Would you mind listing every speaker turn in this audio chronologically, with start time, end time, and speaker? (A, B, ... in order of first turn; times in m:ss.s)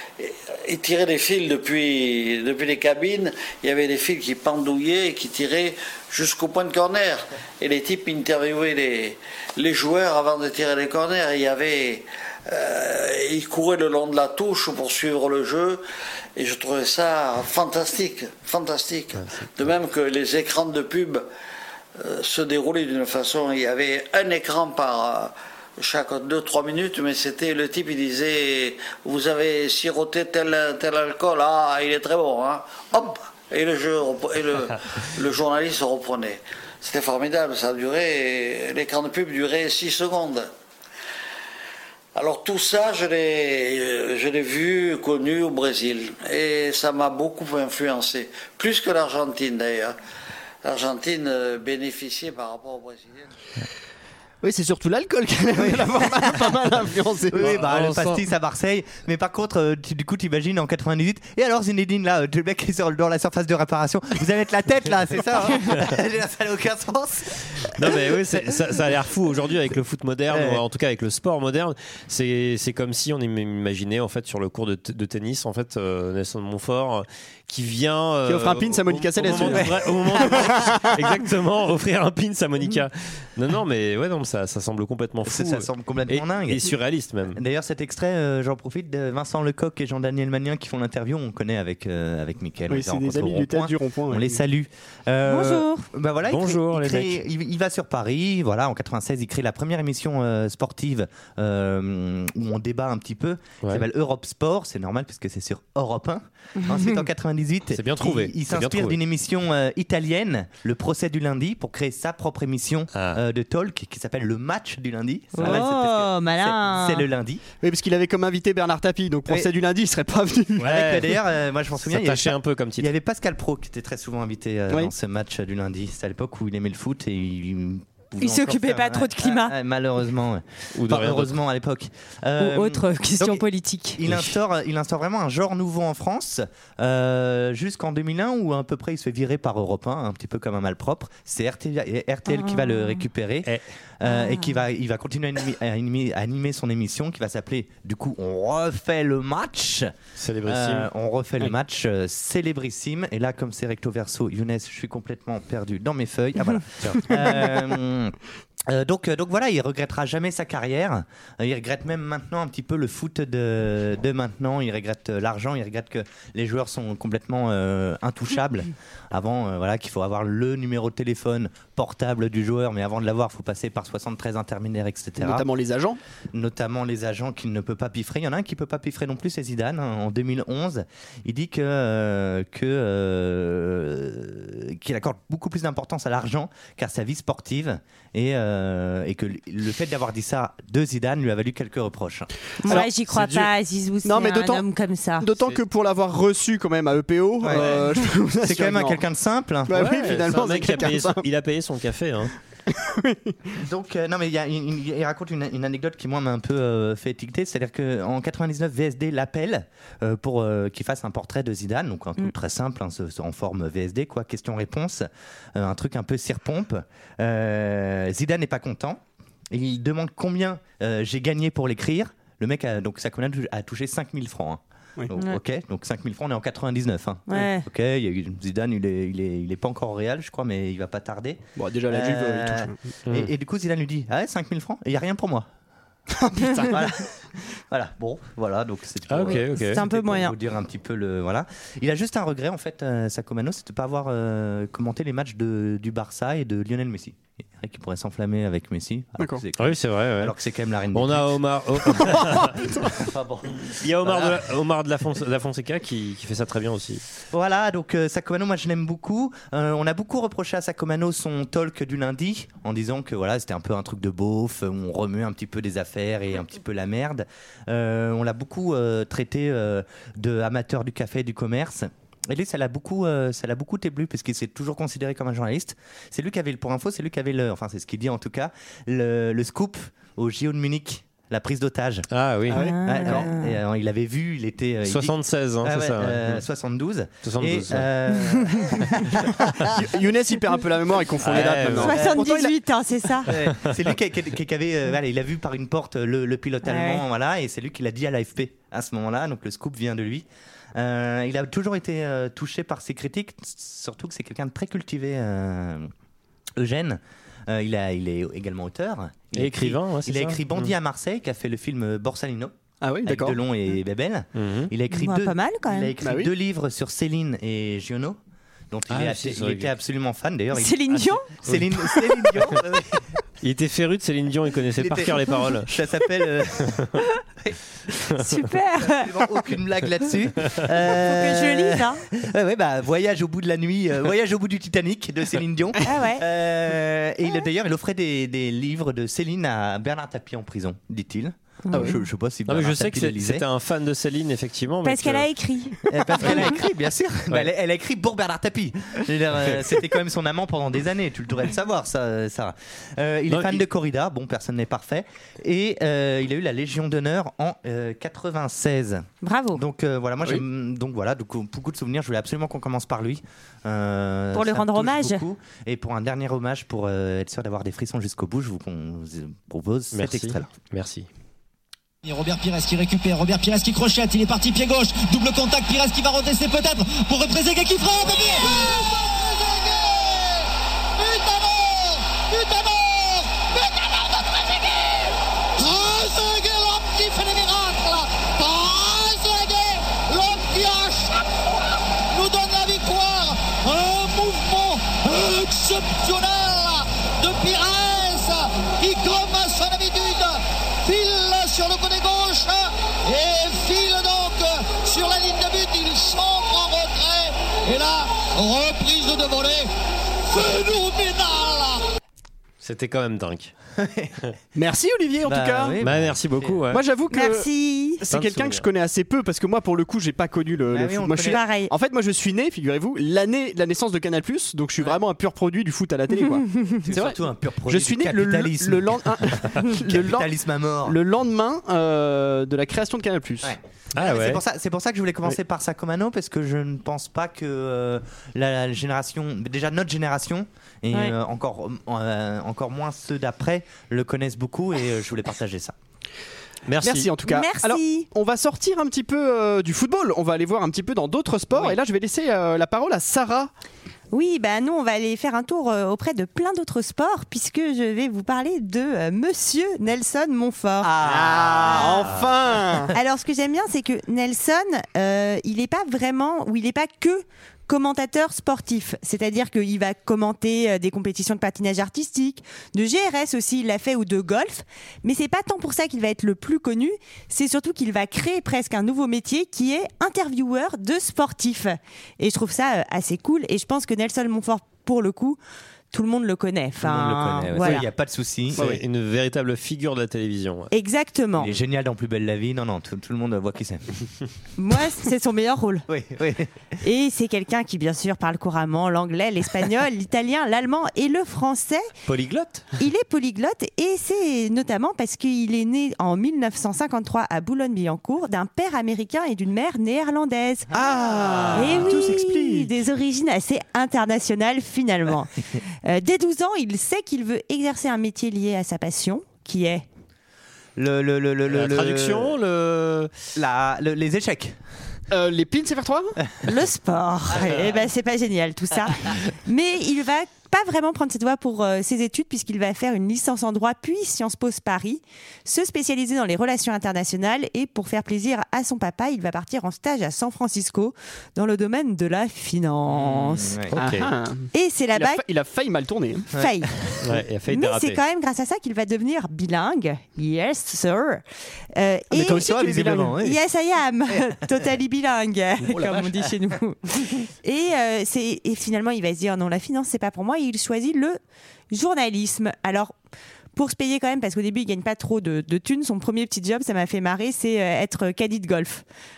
0:00.2-0:15.8 A
0:16.4-0:21.3 A
0:19.2-0:19.7 B
0:22.0-0:40.5 A
0:42.2-0:50.0 A
0:50.6-0:53.3 A
0:54.4-0:57.5 C
0:55.6-0:56.6 D
0:57.3-1:08.2 D
0:57.4-0:58.2 B
1:07.8-1:27.4 B
1:10.3-1:10.6 D
1:18.3-1:19.7 C
1:19.5-1:20.4 D
1:20.4-1:20.8 C
1:25.2-1:26.7 D
1:27.3-1:57.4 D
1:32.7-1:34.4 C
1:35.3-1:35.9 E
1:36.3-1:37.2 B
1:46.6-1:47.0 E
1:47.8-1:49.0 B
1:55.4-1:57.1 E
1:57.6-2:00.8 C
2:00.6-2:01.2 B
2:00.6-2:13.4 D
2:01.8-2:02.9 B
2:08.2-2:09.5 E
2:10.8-2:11.4 B
2:12.4-2:14.0 E
2:14.0-2:29.9 D
2:22.3-2:23.0 E
2:24.0-2:24.6 E
2:30.2-2:30.9 B
2:30.5-2:38.1 D
2:38.7-2:55.5 D
2:55.2-2:56.0 C
2:56.3-3:12.3 D
3:12.6-3:15.3 E
3:13.1-3:13.5 B
3:14.0-3:14.6 C
3:15.2-3:19.0 C
3:17.4-3:17.8 D
3:18.4-3:20.0 D
3:19.7-3:21.2 C
3:19.8-3:22.3 B
3:22.7-3:23.4 C
3:23.6-3:55.5 D
3:47.3-3:47.7 E
3:51.6-3:52.8 C
3:56.2-3:56.8 C
3:56.7-3:57.0 D
3:57.7-4:11.2 D
3:59.1-3:59.8 B
3:59.2-4:00.3 E
4:09.6-4:10.4 B
4:10.9-4:12.6 B
4:12.1-4:12.8 C
4:13.1-4:13.5 D
4:13.8-4:17.0 B
4:14.0-4:14.4 D
4:17.3-4:42.0 D
4:42.1-4:42.6 B
4:42.5-4:43.2 C
4:42.5-4:43.6 E
4:42.8-4:49.7 D
4:44.9-4:46.4 B
4:47.2-4:47.9 B
4:49.7-4:52.5 C
4:51.2-4:52.0 B
4:51.4-4:52.5 D
4:51.8-4:53.3 E
4:53.3-5:05.9 D
4:53.5-4:53.7 B
4:56.6-4:57.0 E
5:06.6-5:12.5 D
5:09.4-5:10.7 B
5:12.8-5:13.4 C
5:13.1-5:18.2 D
5:14.4-5:14.7 B
5:14.9-5:15.9 E
5:16.0-5:16.3 C
5:18.7-5:23.0 D
5:18.9-5:19.7 B
5:20.5-5:21.4 E
5:23.4-5:25.7 B
5:24.8-5:26.7 D
5:28.2-5:29.1 E
5:28.8-5:43.4 D
5:30.9-5:32.0 E
5:35.9-5:36.2 E
5:41.7-5:42.0 E
5:42.5-5:45.3 B
5:44.8-5:46.5 E
5:45.9-6:10.5 D
5:53.3-5:53.6 B
5:59.2-5:59.6 E
6:04.3-6:05.2 E
6:09.9-6:11.1 B
6:12.0-6:18.8 F
6:18.4-6:20.4 G
6:21.0-6:49.7 G
6:50.3-6:51.8 G
6:52.6-6:53.5 B
6:53.8-6:54.1 D
6:54.6-6:55.8 C
6:55.3-6:56.6 D
6:55.8-6:56.8 B
6:56.7-6:57.5 C
6:57.1-6:58.0 E
6:58.0-7:07.2 C
6:58.1-6:58.6 B
7:00.7-7:01.4 D
7:01.2-7:01.7 E
7:06.8-7:09.0 D
7:07.7-7:10.3 C
7:09.9-7:11.0 D
7:10.8-7:13.5 C
7:13.4-7:25.8 D
7:14.0-7:14.4 B
7:26.7-7:27.1 B
7:26.8-7:33.5 C
7:27.2-7:28.1 E
7:34.1-7:40.9 E
7:40.9-7:42.9 C
7:40.9-7:41.9 D
7:41.6-7:42.1 E
7:42.9-8:05.4 E
8:05.9-8:07.8 E
8:06.8-8:08.7 D
8:08.6-8:10.7 B
8:10.7-8:11.5 E
8:11.4-8:13.8 D
8:14.6-8:15.9 E
8:15.9-8:16.5 D
8:16.8-8:21.9 E
8:22.1-8:22.7 B
8:22.8-8:30.7 E
8:30.7-8:32.7 D
8:30.8-8:31.6 C
8:31.6-8:35.3 E
8:35.8-8:39.9 E
8:40.8-8:42.3 D
8:41.5-8:43.1 B
8:43.4-8:44.6 D
8:45.1-8:46.1 C
8:46.5-9:03.6 E
9:02.9-9:03.7 D
9:03.8-9:04.1 B
9:03.8-9:06.3 C
9:04.5-9:05.2 E
9:06.3-9:06.9 D
9:06.4-9:06.7 E
9:07.0-9:08.0 B
9:07.5-9:11.2 E
9:11.7-9:16.8 E
9:12.1-9:13.4 D
9:12.2-9:13.2 C
9:14.1-9:14.4 D
9:15.7-9:16.2 D
9:17.4-9:21.2 E
9:21.7-9:23.0 E
9:23.6-9:28.8 E